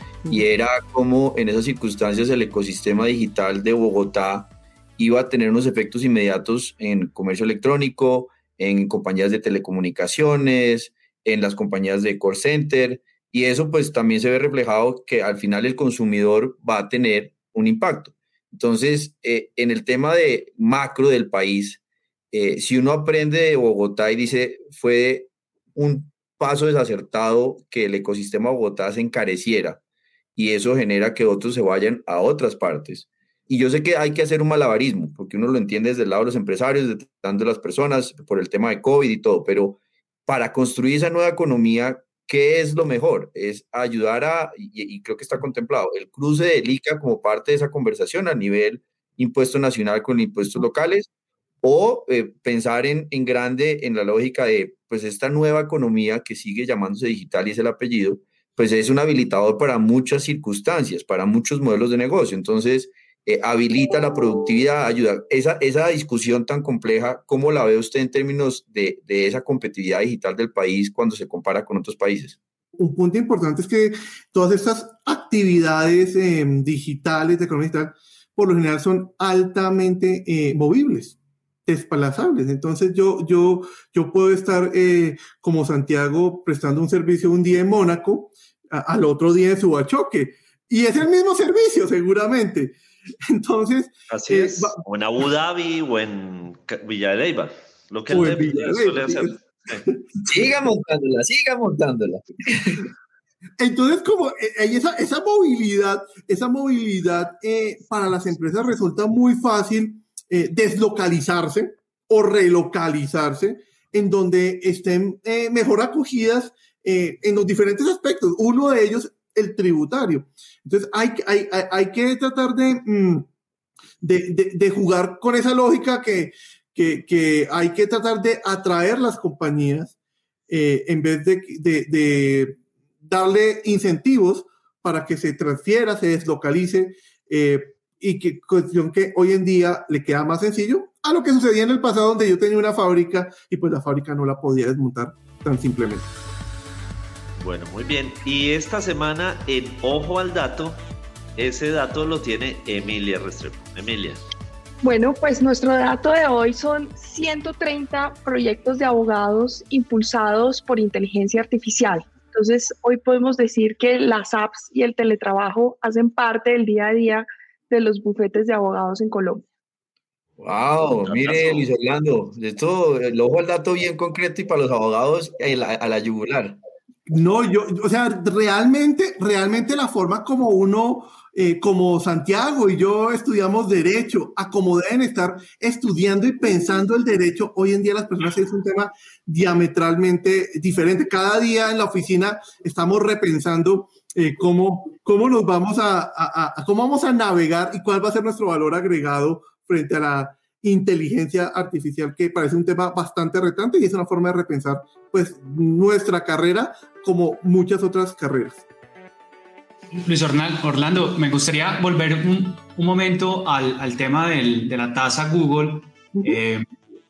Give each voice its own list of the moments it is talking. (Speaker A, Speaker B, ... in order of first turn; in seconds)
Speaker A: 0.3-21.8, 22.3-29.8, 30.4-51.1, 51.6-72.4, 100.2-102.8, 170.4-176.6
Speaker B: 72.8-92.8, 93.3-94.8, 98.1-100.0, 103.6-123.2, 124.0-129.9, 130.5-146.1, 177.1-208.6
Speaker C: 94.1-99.8, 147.4-150.8, 151.3-154.2, 171.0-171.7
Speaker D: 154.8-169.4
Speaker E: 209.9-216.7